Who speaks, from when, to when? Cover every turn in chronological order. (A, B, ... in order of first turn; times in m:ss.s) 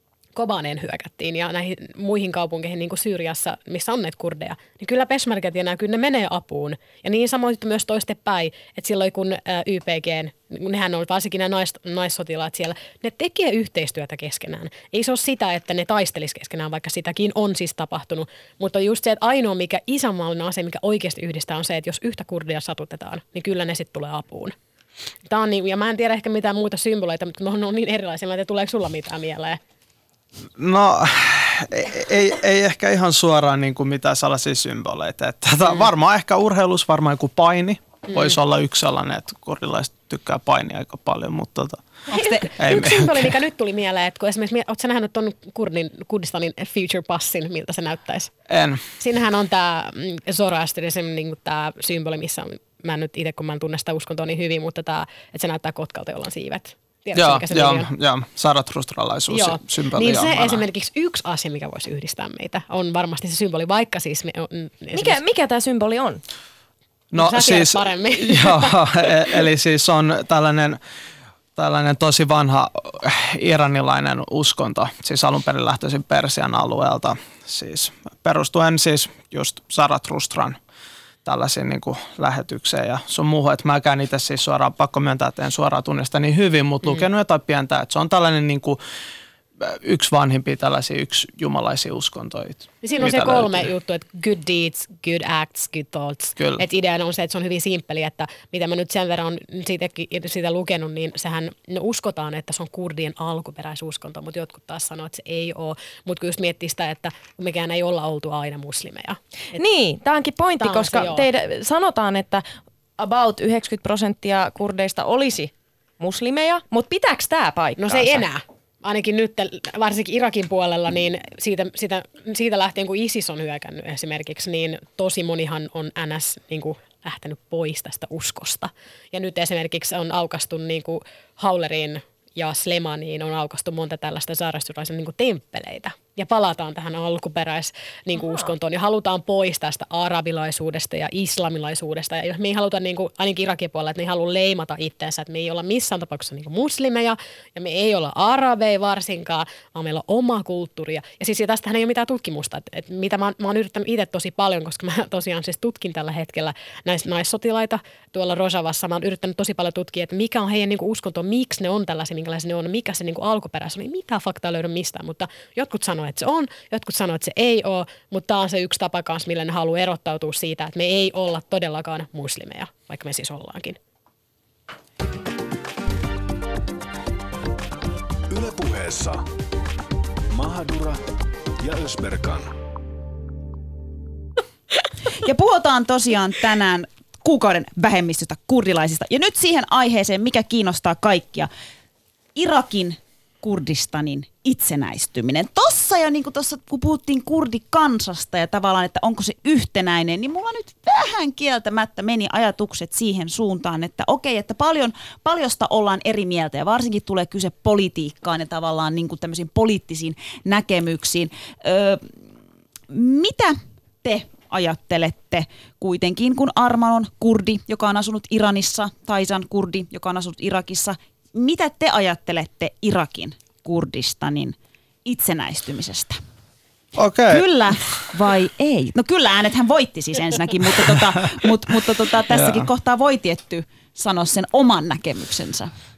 0:00.4-0:24.6 A
0:25.3-0:29.6 A
0:30.6-0:41.9 B
0:42.1-0:48.3 A
0:42.2-0:42.5 C
0:42.6-0:43.3 B
0:48.5-0:48.8 B
0:49.0-0:57.9 A
0:57.1-1:00.6 B
0:59.3-1:05.2 A
1:04.9-1:06.2 D
1:07.1-1:10.8 B
1:07.2-1:08.8 A
1:11.6-1:20.6 B
1:21.2-1:28.8 B
1:29.6-1:33.7 B
1:32.8-1:49.2 A
1:36.4-1:36.6 B
1:49.5-1:52.4 D
1:50.6-1:51.2 A
1:53.0-1:58.2 D
1:57.8-2:53.8 A
2:18.2-2:18.5 D
2:58.3-2:59.2 E
3:00.3-3:01.0 E
3:01.6-3:02.5 E
3:05.1-3:11.5 C
3:12.4-3:32.1 C
3:32.9-3:46.2 C
3:47.0-3:48.0 B
3:47.3-3:55.7 C
3:52.3-3:52.7 B